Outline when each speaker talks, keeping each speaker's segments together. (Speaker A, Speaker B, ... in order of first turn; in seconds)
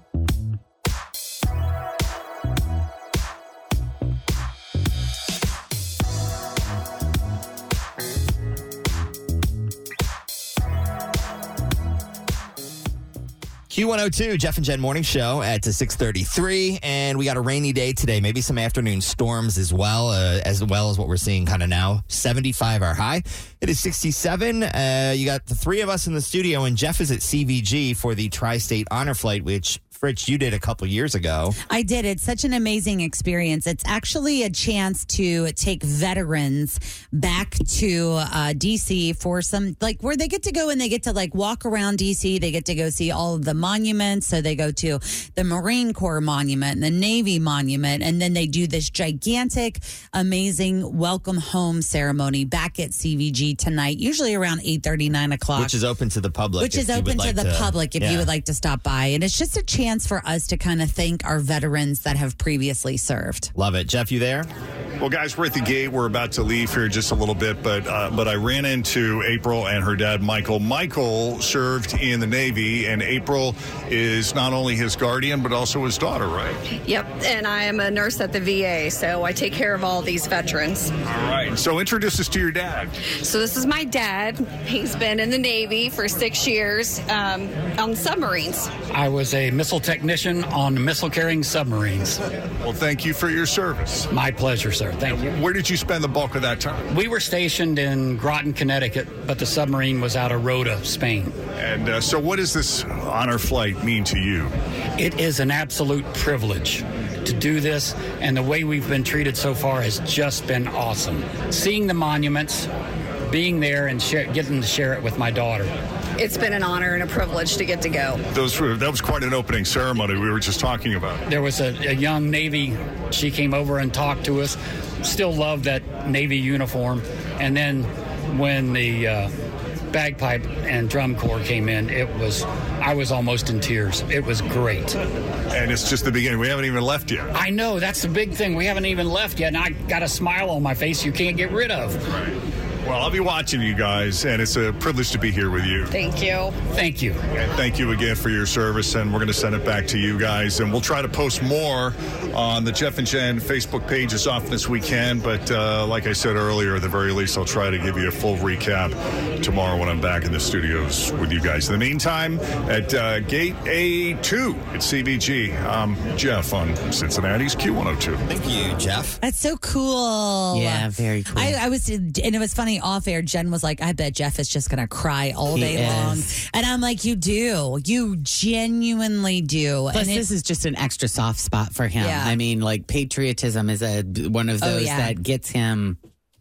Speaker A: 13.7-31.6, 55.5-58.3, 63.5-64.5, 168.2-169.2
Speaker B: 31.7-55.8, 56.6-63.5, 169.2-180.2, 182.0-182.4, 184.6-185.1
Speaker C: 65.0-76.6, 81.1-83.0, 92.6-94.1, 95.1-96.8, 101.6-104.5, 118.3-121.2, 135.5-137.3, 142.2-145.9, 147.3-168.2
Speaker D: 76.7-80.9, 83.1-88.7, 116.2-118.2, 145.9-146.6
Speaker E: 88.9-92.2, 94.1-95.3, 96.9-101.3, 105.0-112.7, 113.3-115.7, 121.3-129.3, 129.9-134.9, 137.3-142.0, 146.7-147.2
Speaker F: 170.5-171.6, 175.5-176.3, 179.9-186.0